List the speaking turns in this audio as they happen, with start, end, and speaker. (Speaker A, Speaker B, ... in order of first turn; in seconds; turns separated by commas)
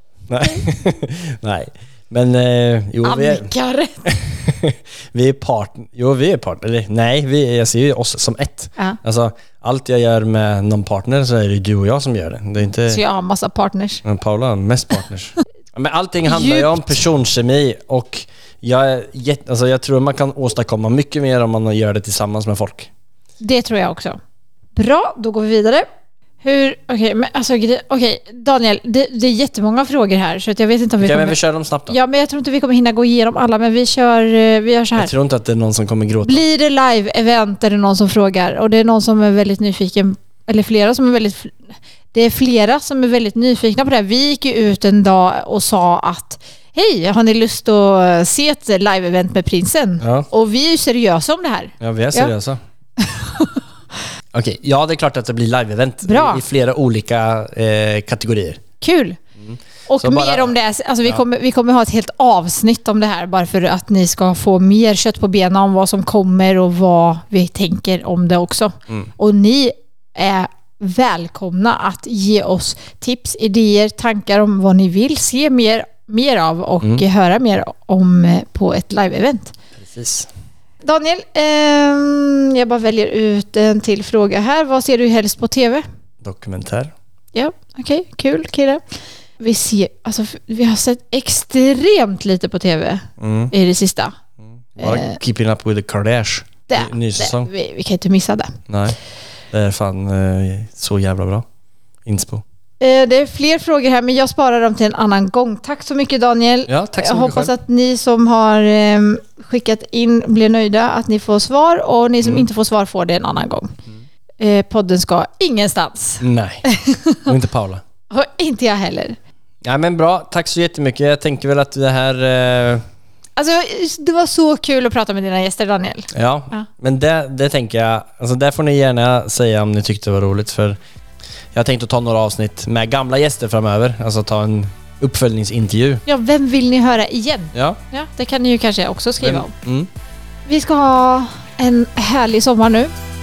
Speaker A: 0.3-3.5, Speaker B: 3.0-4.0, Speaker A: 4.0-13.0, Speaker B: 12.9-14.0, Speaker A: 14.0-22.9, Speaker B: 16.3-17.0, Speaker B: 23.4-24.2, Speaker B: 24.7-25.9, Speaker B: 26.4-35.1, Speaker A: 31.0-32.0, Speaker A: 35.0-36.5, Speaker B: 36.2-41.6, Speaker B: 42.1-52.3, Speaker A: 50.0-50.3, Speaker A: 51.8-52.6, Speaker B: 53.0-53.6, Speaker A: 54.3-58.6, Speaker B: 56.0-56.4, Speaker B: 58.8-59.2, Speaker A: 59.4-60.5, Speaker B: 59.9-79.5, Speaker A: 79.8-80.3, Speaker B: 80.8-85.8, Speaker A: 86.2-86.9, Speaker B: 87.3-88.8, Speaker B: 89.4-94.1, Speaker A: 93.2-93.5, Speaker A: 94.6-97.5, Speaker B: 94.8-95.2, Speaker B: 96.7-98.5, Speaker A: 98.7-99.0, Speaker A: 99.5-101.5, Speaker A: 102.0-102.4, Speaker B: 102.8-113.7, Speaker A: 106.7-107.5, Speaker B: 114.4-117.2, Speaker A: 116.2-116.6, Speaker A: 117.3-117.8, Speaker B: 118.1-119.2, Speaker A: 119.6-122.8, Speaker B: 123.4-126.7, Speaker A: 126.1-130.8, Speaker A: 131.5-136.0, Speaker B: 136.1-139.5, Speaker A: 137.5-137.8, Speaker A: 139.2-139.9, Speaker B: 140.4-142.9